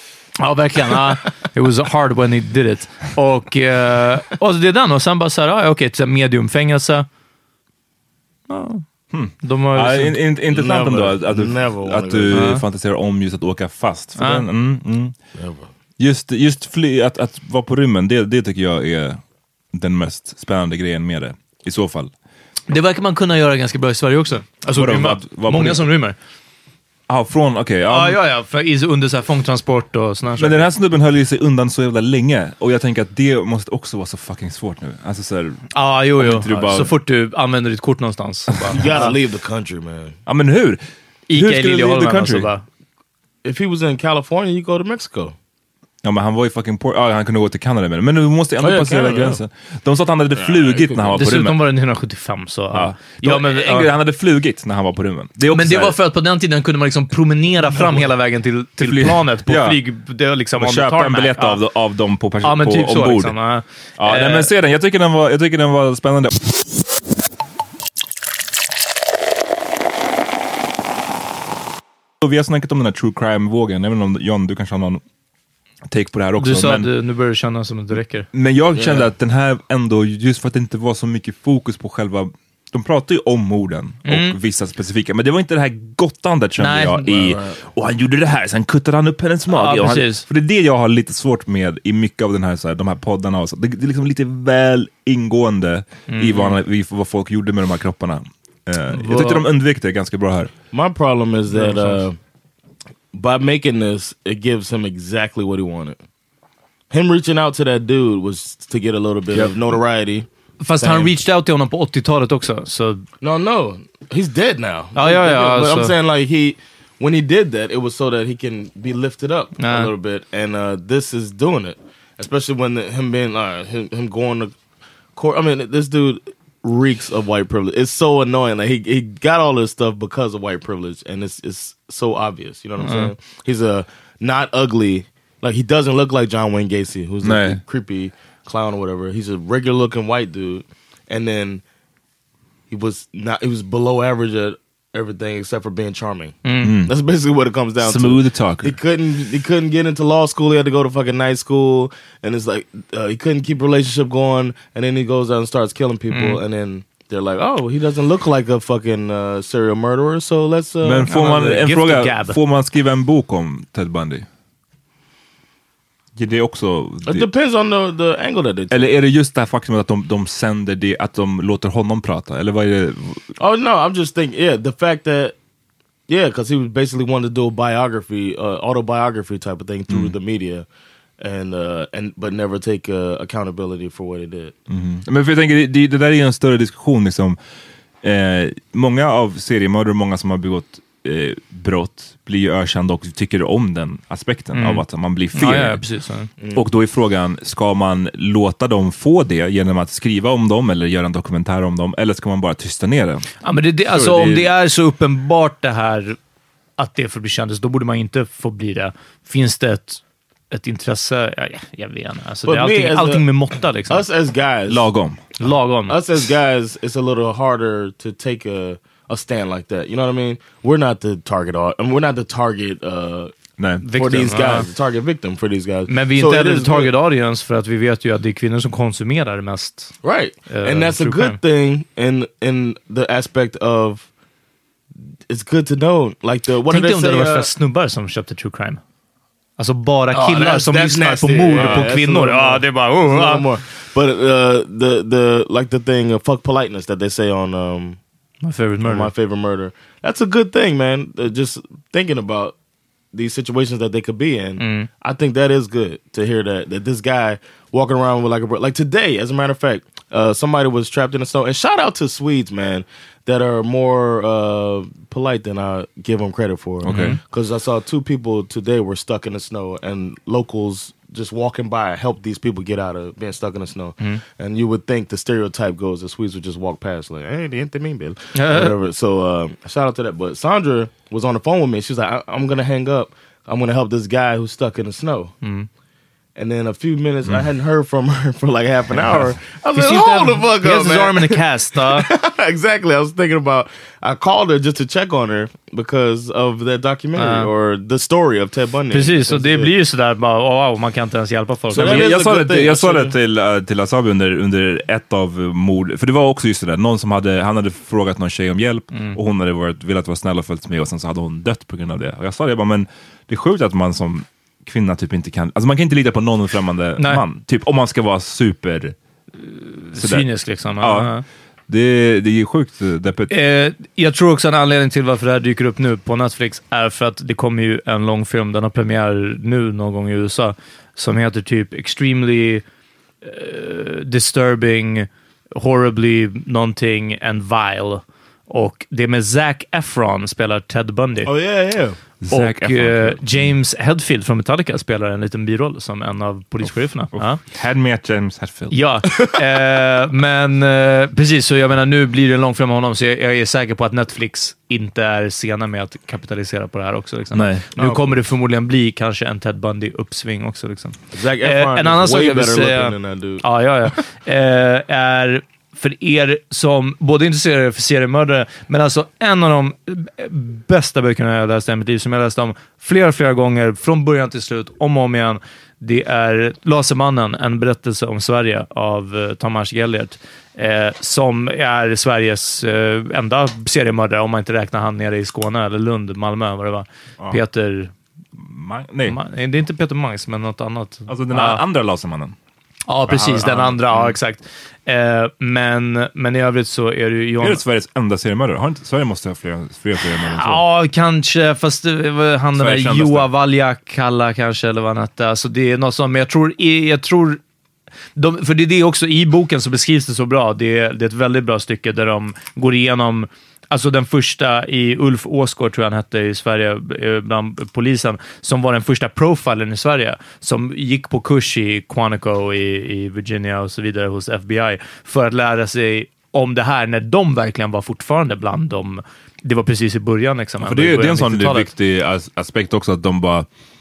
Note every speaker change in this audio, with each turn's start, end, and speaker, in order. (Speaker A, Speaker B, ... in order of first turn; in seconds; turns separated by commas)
Speaker A: 0.4-7.1, Speaker A: 8.5-8.8, Speaker B: 9.1-15.2, Speaker A: 9.4-10.2, Speaker C: 10.5-12.6, Speaker A: 12.3-12.6, Speaker A: 14.2-14.5, Speaker C: 15.4-15.7, Speaker B: 16.0-19.2, Speaker B: 19.7-22.1, Speaker A: 22.7-26.2, Speaker B: 24.7-25.9, Speaker B: 27.1-28.2, Speaker A: 27.9-30.6, Speaker B: 30.4-36.9, Speaker A: 35.7-39.1, Speaker C: 38.7-40.2, Speaker B: 40.3-42.5, Speaker A: 41.3-42.6, Speaker C: 43.4-45.4, Speaker B: 46.0-51.6, Speaker C: 48.6-49.4, Speaker C: 50.3-51.2, Speaker A: 51.2-53.9, Speaker B: 52.7-56.0, Speaker A: 55.5-61.6, Speaker B: 58.8-59.8, Speaker B: 60.6-63.4, Speaker A: 62.4-64.5, Speaker B: 64.0-66.5, Speaker B: 72.2-75.0, Speaker B: 75.9-76.9, Speaker A: 76.4-78.3, Speaker B: 78.3-100.5, Speaker C: 78.7-79.1, Speaker A: 84.1-84.4, Speaker A: 86.6-87.2, Speaker C: 87.1-87.6, Speaker A: 89.5-90.2, Speaker A: 96.1-96.5, Speaker A: 98.9-99.5, Speaker C: 100.7-102.2, Speaker A: 101.5-102.0, Speaker C: 103.1-106.0, Speaker C: 106.9-111.1, Speaker B: 109.3-109.7, Speaker A: 110.6-113.0, Speaker C: 113.2-124.5, Speaker A: 115.0-115.9, Speaker A: 119.6-119.9, Speaker C: 125.2-141.6, Speaker A: 132.8-133.1, Speaker B: 137.2-137.6, Speaker C: 142.7-161.1, Speaker A: 146.4-146.7, Speaker B: 146.6-146.9, Speaker B: 147.8-148.8, Speaker A: 156.1-156.4, Speaker B: 160.8-164.3, Speaker A: 161.1-162.4, Speaker B: 166.2-167.3, Speaker C: 167.1-168.8, Speaker B: 168.7-173.3, Speaker C: 173.4-175.4, Speaker C: 176.1-180.7, Speaker B: 179.9-180.1, Speaker C: 181.2-184.5, Speaker B: 184.7-187.4, Speaker B: 188.0-195.8, Speaker A: 194.5-196.3, Speaker B: 196.5-203.3, Speaker A: 203.4-206.2, Speaker B: 203.9-204.5, Speaker A: 206.8-214.0, Speaker C: 212.5-213.3, Speaker C: 213.9-214.9, Speaker B: 214.7-215.2, Speaker A: 215.4-216.0, Speaker C: 215.9-223.3, Speaker B: 223.6-224.4, Speaker A: 223.8-224.7, Speaker C: 223.9-226.9, Speaker A: 225.9-229.9, Speaker C: 230.0-234.1, Speaker A: 230.5-231.4, Speaker C: 235.3-237.5, Speaker A: 236.7-238.8, Speaker A: 239.6-243.5, Speaker C: 240.1-248.0, Speaker A: 248.4-249.1, Speaker C: 248.8-252.6, Speaker C: 253.1-285.4, Speaker A: 254.6-254.9, Speaker B: 266.8-267.2, Speaker A: 266.9-267.2, Speaker A: 278.4-278.8, Speaker A: 285.4-285.7, Speaker C: 286.4-299.7, Speaker B: 289.0-289.3, Speaker A: 289.7-292.1, Speaker A: 297.2-297.5, Speaker A: 298.9-302.1, Speaker C: 301.7-303.1, Speaker B: 301.8-319.0, Speaker A: 308.9-309.2, Speaker A: 317.0-317.2, Speaker A: 319.4-321.2, Speaker B: 320.0-321.1, Speaker B: 321.7-323.3, Speaker A: 323.3-332.6, Speaker A: 333.2-341.3, Speaker C: 341.2-342.0, Speaker B: 342.2-343.6, Speaker A: 342.3-347.4, Speaker B: 347.1-348.8, Speaker A: 348.7-387.9, Speaker B: 357.3-357.7, Speaker C: 357.8-358.2, Speaker C: 361.1-363.4, Speaker B: 388.4-389.2, Speaker A: 389.1-391.6, Speaker B: 391.1-392.4, Speaker A: 392.9-397.6, Speaker B: 393.1-394.2, Speaker B: 397.4-400.6, Speaker A: 400.3-407.4, Speaker B: 402.6-403.3, Speaker A: 408.2-431.7, Speaker B: 430.6-433.5